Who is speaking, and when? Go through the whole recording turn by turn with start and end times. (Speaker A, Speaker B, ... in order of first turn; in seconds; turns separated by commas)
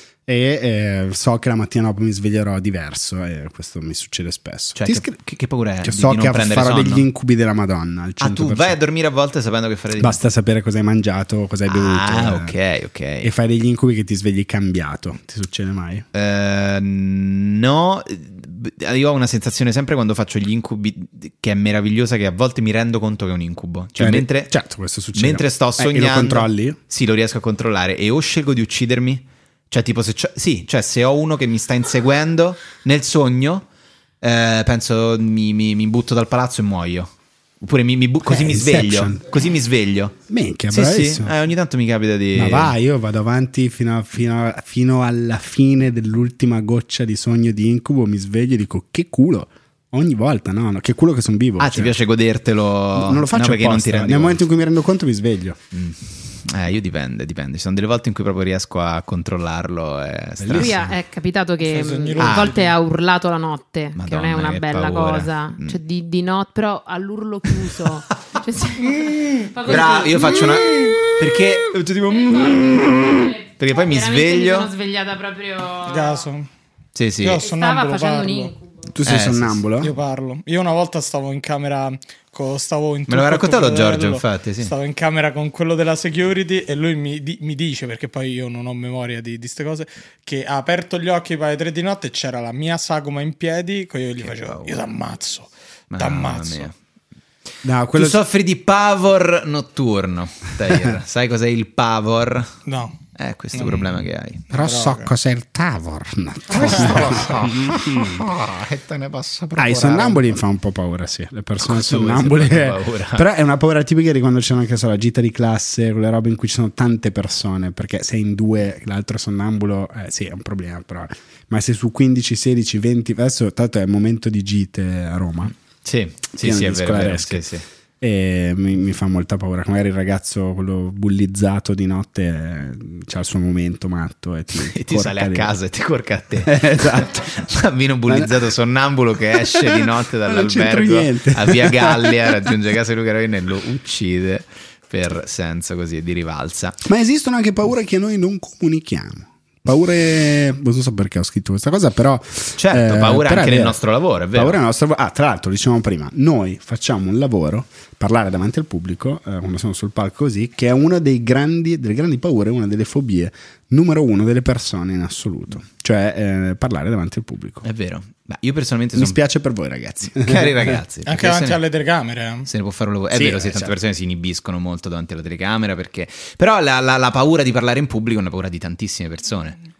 Speaker A: 0.2-5.1, Speaker B: 4.8-7.1, Speaker A: 5.8-8.8, Speaker B: 8.2-10.2, Speaker A: 10.0-12.5, Speaker B: 11.7-13.3, Speaker A: 13.2-16.1, Speaker B: 16.1-24.5, Speaker A: 24.0-26.8, Speaker B: 25.1-33.6, Speaker B: 34.2-40.1, Speaker A: 38.2-39.2, Speaker A: 40.3-41.3, Speaker B: 40.7-42.7, Speaker A: 42.3-52.0, Speaker B: 51.6-54.4, Speaker A: 52.9-55.6, Speaker B: 55.7-60.8, Speaker A: 60.4-60.9, Speaker C: 60.5-70.8, Speaker D: 61.6-62.7, Speaker B: 62.2-62.5, Speaker B: 63.9-65.8, Speaker D: 68.8-70.1, Speaker B: 69.6-74.7, Speaker C: 72.3-76.2, Speaker D: 75.8-76.5, Speaker B: 76.9-77.4, Speaker D: 77.2-78.5, Speaker C: 77.4-78.8, Speaker A: 78.9-79.9, Speaker B: 79.0-79.6, Speaker D: 79.8-96.7, Speaker B: 83.1-84.7, Speaker B: 94.2-94.8, Speaker B: 95.9-96.7, Speaker A: 97.6-98.2, Speaker B: 97.9-102.5, Speaker D: 102.6-103.0, Speaker B: 103.2-104.5, Speaker D: 103.5-103.9, Speaker A: 104.5-108.2, Speaker D: 104.5-105.1, Speaker B: 106.5-110.3, Speaker A: 109.5-125.5, Speaker B: 111.6-113.2, Speaker B: 125.8-127.6, Speaker A: 126.3-127.5, Speaker A: 128.0-135.5, Speaker B: 134.6-146.8, Speaker A: 136.4-137.3, Speaker A: 139.5-142.4, Speaker A: 146.8-153.8, Speaker B: 152.6-154.6, Speaker A: 154.3-167.6, Speaker B: 167.6-169.2, Speaker A: 168.9-170.8, Speaker B: 170.1-171.6, Speaker D: 171.1-172.5, Speaker B: 172.5-179.6, Speaker A: 173.1-173.7